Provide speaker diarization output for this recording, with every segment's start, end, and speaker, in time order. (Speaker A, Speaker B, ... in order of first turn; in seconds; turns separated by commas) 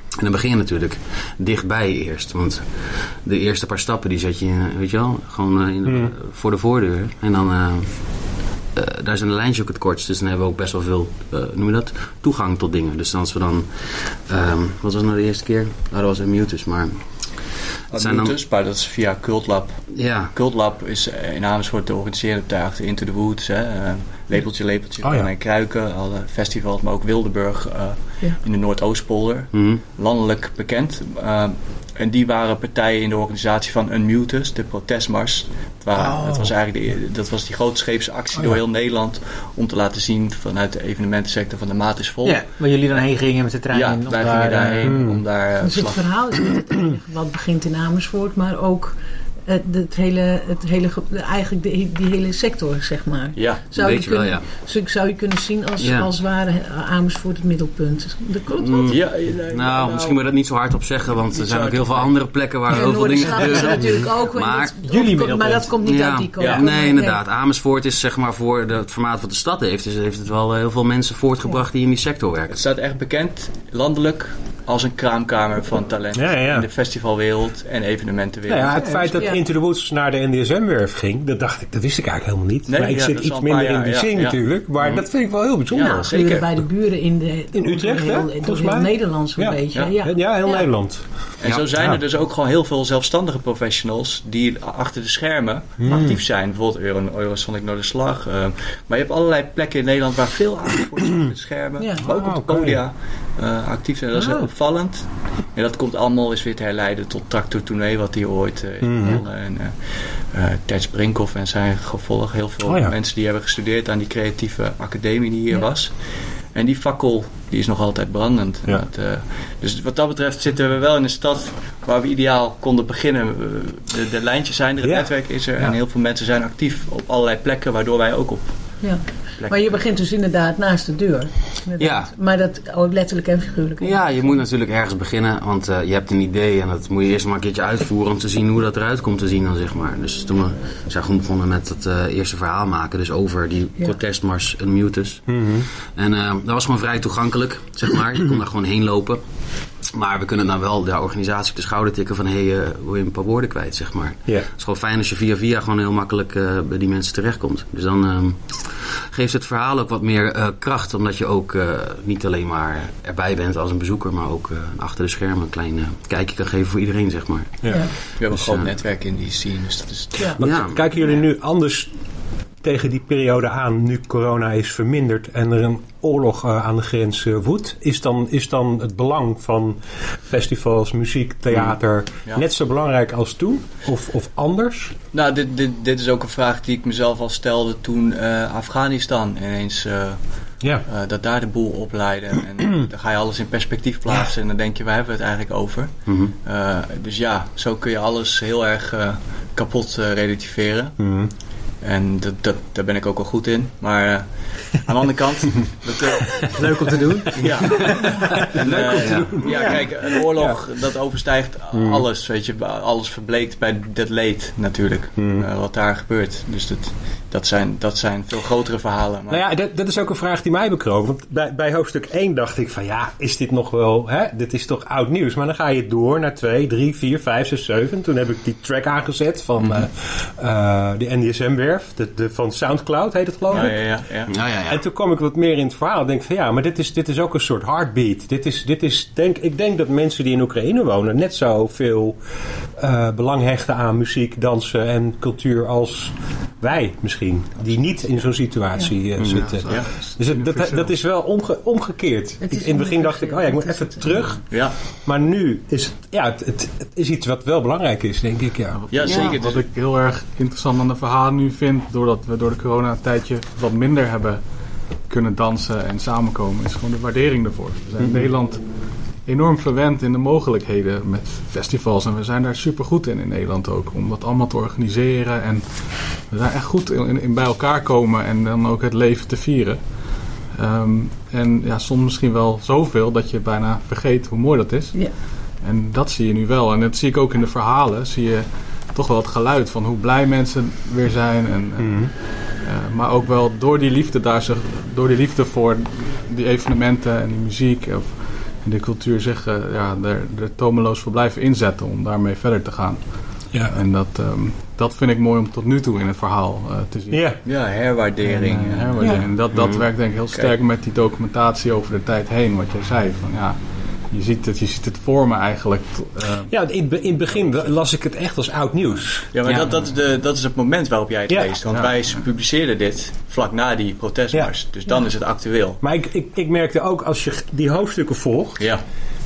Speaker A: 0.2-18.4, Speaker B: 5.8-6.1, Speaker C: 17.9-43.0, Speaker A: 19.9-20.3, Speaker B: 25.0-25.3, Speaker A: 29.5-29.8, Speaker B: 36.0-36.5, Speaker D: 42.2-45.0, Speaker C: 43.7-46.0, Speaker B: 44.8-45.2, Speaker E: 45.6-59.0, Speaker C: 53.3-53.6, Speaker A: 53.8-54.5, Speaker A: 55.8-56.1, Speaker A: 58.6-64.7, Speaker C: 58.9-60.2, Speaker C: 61.3-62.2, Speaker E: 62.7-67.2, Speaker D: 63.3-63.9, Speaker D: 64.8-65.8, Speaker A: 65.8-72.6, Speaker C: 66.4-66.6, Speaker C: 72.5-79.2, Speaker B: 76.2-76.7, Speaker B: 78.5-86.1, Speaker D: 78.7-79.2, Speaker E: 79.1-79.4, Speaker C: 82.7-84.4, Speaker C: 85.7-86.5, Speaker E: 85.8-90.7, Speaker B: 87.5-92.0, Speaker C: 91.4-129.8, Speaker B: 95.8-96.2, Speaker E: 101.8-102.1, Speaker B: 102.0-102.8, Speaker D: 104.2-104.5, Speaker B: 108.8-109.2, Speaker B: 112.7-112.9, Speaker B: 124.8-125.7, Speaker E: 128.8-134.4, Speaker A: 131.8-132.1, Speaker A: 133.8-168.7, Speaker B: 145.3-145.7, Speaker B: 167.6-167.9, Speaker C: 168.2-170.4, Speaker B: 170.4-184.9, Speaker A: 170.4-170.8, Speaker C: 185.1-201.2, Speaker B: 190.6-190.8, Speaker A: 196.1-196.3, Speaker B: 201.0-201.3, Speaker C: 201.8-219.4, Speaker D: 206.5-208.1, Speaker B: 207.4-210.7, Speaker A: 208.9-209.4, Speaker D: 209.4-209.8, Speaker B: 211.7-212.1, Speaker B: 215.2-215.5, Speaker B: 219.3-242.2, Speaker C: 233.5-234.3, Speaker A: 234.3-234.8, Speaker B: 242.7-258.8, Speaker A: 249.2-249.4, Speaker F: 249.2-251.0, Speaker C: 249.7-249.9, Speaker E: 252.4-254.3, Speaker C: 254.5-254.7, Speaker F: 258.7-317.7, Speaker C: 258.9-259.7, Speaker A: 259.1-259.3, Speaker B: 268.0-268.3, Speaker B: 291.8-292.1, Speaker B: 303.5-303.8, Speaker B: 307.1-307.4, Speaker C: 307.4-309.3, Speaker E: 309.0-309.3, Speaker A: 309.5-309.9, Speaker B: 316.5-319.3, Speaker C: 319.3-325.8, Speaker A: 319.4-319.7, Speaker B: 321.3-321.5, Speaker F: 321.7-322.2, Speaker B: 325.8-328.7, Speaker C: 328.6-328.8